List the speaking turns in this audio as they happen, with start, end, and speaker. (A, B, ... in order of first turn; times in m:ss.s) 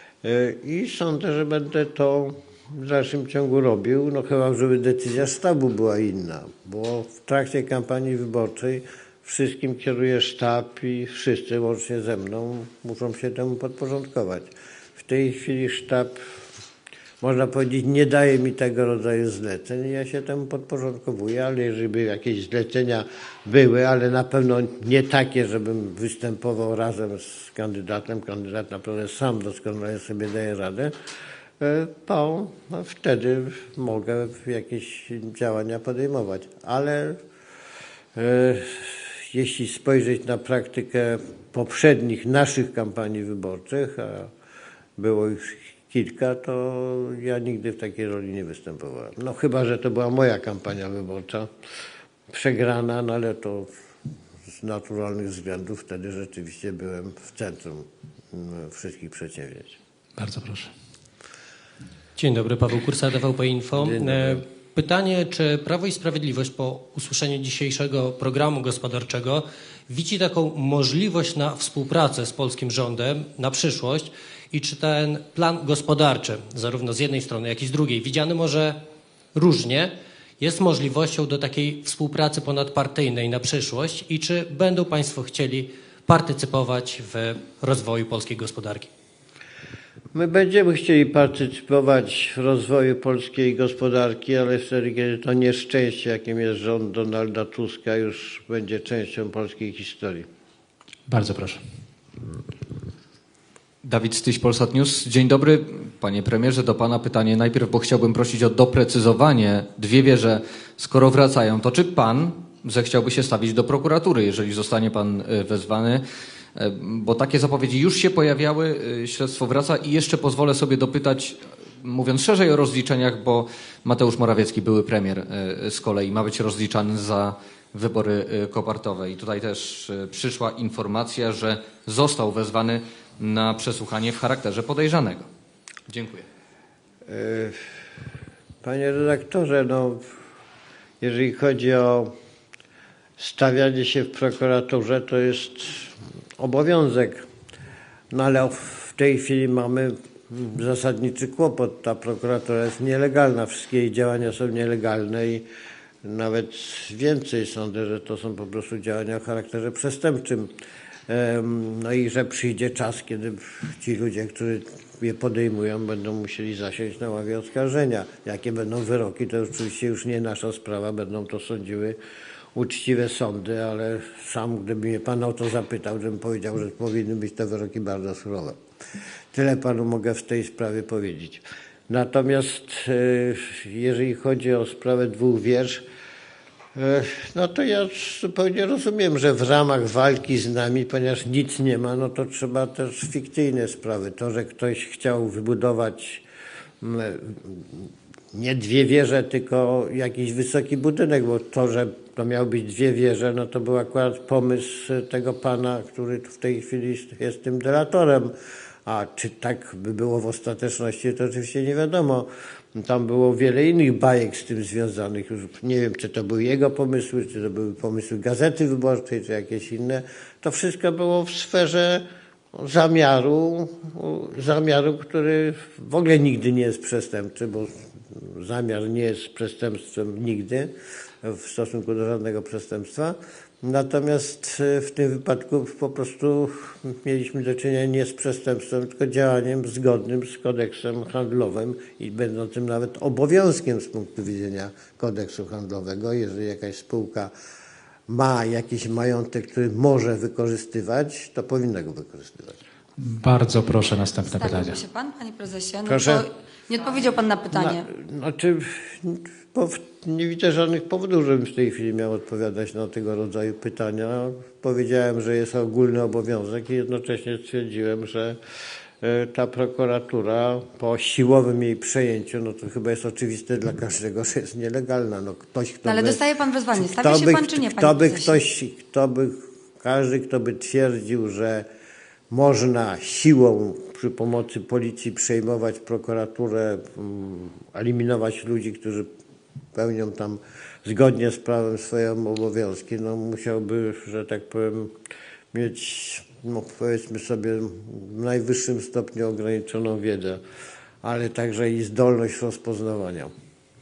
0:00.2-0:16.2 A
0:17.2-0:30.9 A
0:31.6-0:37.2 A
0:38.2-0:44.3 A
0:45.0-0:51.5 A
0:52.3-0:53.7 A
0:54.5-0:59.8 A
1:00.2-1:00.7 B
1:02.2-1:18.8 C
1:03.8-1:04.4 A
1:19.4-1:28.9 C
1:30.1-1:40.3 A
1:41.1-1:41.6 B
1:43.8-2:15.3 D
2:15.9-2:16.2 D
2:17.1-2:17.6 A
2:18.6-2:20.1 A
2:21.0-2:22.1 A
2:23.2-2:27.2 A
2:28.1-2:35.4 A
2:36.0-2:40.5 A
2:41.1-2:52.0 A
2:52.6-2:58.6 A
2:59.3-3:05.8 A
3:06.8-3:16.2 A
3:16.8-3:28.3 A
3:28.9-3:50.7 A
3:51.2-4:07.3 A
4:08.1-4:12.6 A
4:13.0-4:14.8 B
4:14.2-4:17.9 E
4:15.8-4:16.3 A
4:17.5-4:28.4 A
4:29.0-4:36.2 A
4:35.8-4:38.4 E
4:36.7-4:41.7 A
4:42.3-4:49.1 A
4:49.8-4:54.9 A
4:55.5-5:00.4 A
5:01.0-5:03.3 A